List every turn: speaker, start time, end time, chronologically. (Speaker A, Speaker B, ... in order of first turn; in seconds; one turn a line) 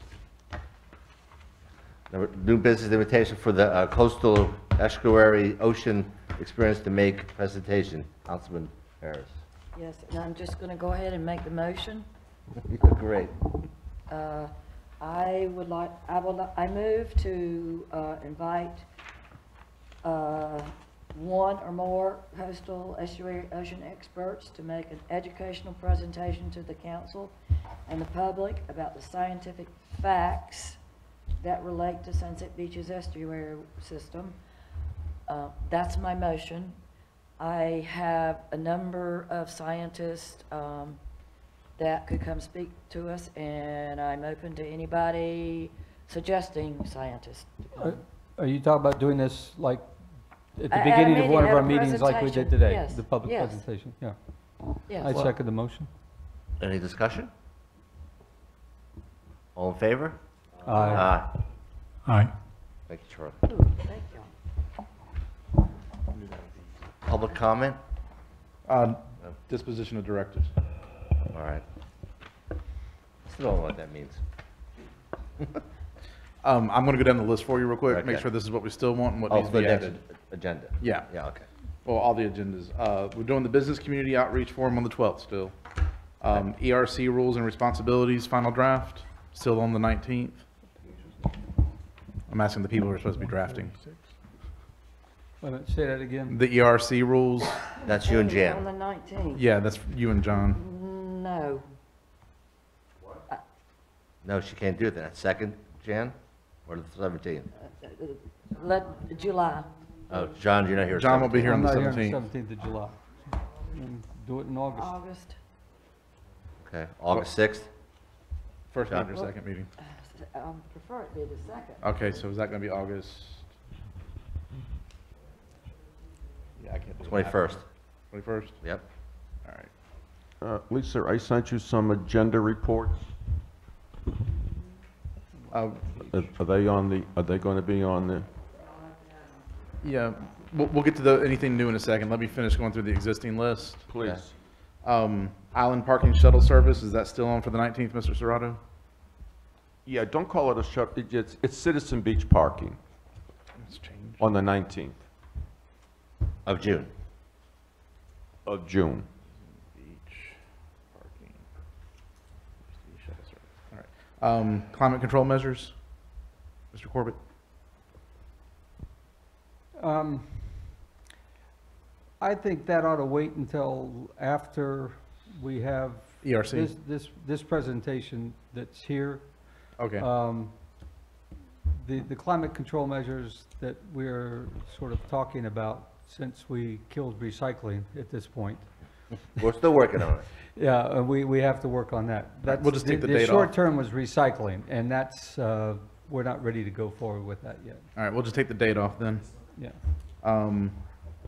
Speaker A: 2.1-9.4
Speaker B: 9.7-12.1
Speaker A: 12.7-13.3
Speaker B: 14.1-18.8
Speaker B: 20.0-27.4
Speaker B: 27.9-30.8
Speaker B: 31.4-34.4
Speaker B: 35.3-36.8
Speaker B: 37.4-41.0
Speaker B: 41.8-48.0
Speaker C: 47.8-49.9
Speaker C: 50.5-54.2
Speaker B: 50.7-53.6
Speaker C: 54.7-55.9
Speaker B: 54.9-55.2
Speaker A: 56.6-57.3
Speaker A: 59.5-61.3
Speaker C: 60.6-61.2
Speaker A: 62.9-63.4
Speaker B: 63.4-64.3
Speaker A: 67.0-67.8
Speaker D: 68.7-70.5
Speaker A: 71.3-71.6
Speaker A: 73.2-74.2
Speaker D: 76.4-80.0
Speaker A: 77.9-78.2
Speaker A: 79.3-81.5
Speaker D: 80.8-81.1
Speaker D: 81.8-85.5
Speaker D: 86.2-90.4
Speaker D: 92.3-93.8
Speaker C: 95.4-96.4
Speaker D: 96.3-97.6
Speaker A: 97.8-98.6
Speaker B: 97.8-99.4
Speaker D: 99.3-100.6
Speaker B: 100.5-101.7
Speaker A: 104.2-106.2
Speaker A: 106.7-107.5
Speaker B: 107.6-109.7
Speaker A: 110.1-111.9
Speaker D: 110.9-112.2
Speaker C: 111.4-113.0
Speaker C: 113.6-115.0
Speaker B: 114.7-115.4
Speaker A: 116.6-117.7
Speaker D: 118.7-119.7
Speaker A: 118.8-119.2
Speaker B: 119.8-121.8
Speaker D: 121.8-123.5
Speaker D: 126.6-127.5
Speaker A: 127.0-127.6
Speaker D: 128.1-128.6
Speaker D: 129.4-129.7
Speaker E: 130.4-133.1
Speaker D: 135.5-136.0
Speaker E: 136.0-138.3
Speaker D: 139.8-143.9
Speaker E: 143.9-144.3
Speaker D: 144.8-148.6
Speaker E: 149.8-152.8
Speaker D: 153.6-154.2
Speaker E: 154.2-155.0
Speaker A: 156.4-156.9
Speaker E: 158.4-159.1
Speaker D: 159.8-160.4
Speaker D: 160.9-161.4
Speaker D: 162.8-165.8
Speaker D: 166.7-167.2
Speaker C: 169.8-170.7
Speaker C: 172.2-180.6
Speaker D: 176.2-176.7
Speaker D: 179.8-180.1
Speaker C: 181.8-188.7
Speaker A: 189.3-190.3
Speaker C: 190.5-197.8
Speaker D: 192.4-193.5
Speaker D: 197.9-199.3
Speaker C: 199.5-199.8
Speaker D: 200.2-200.8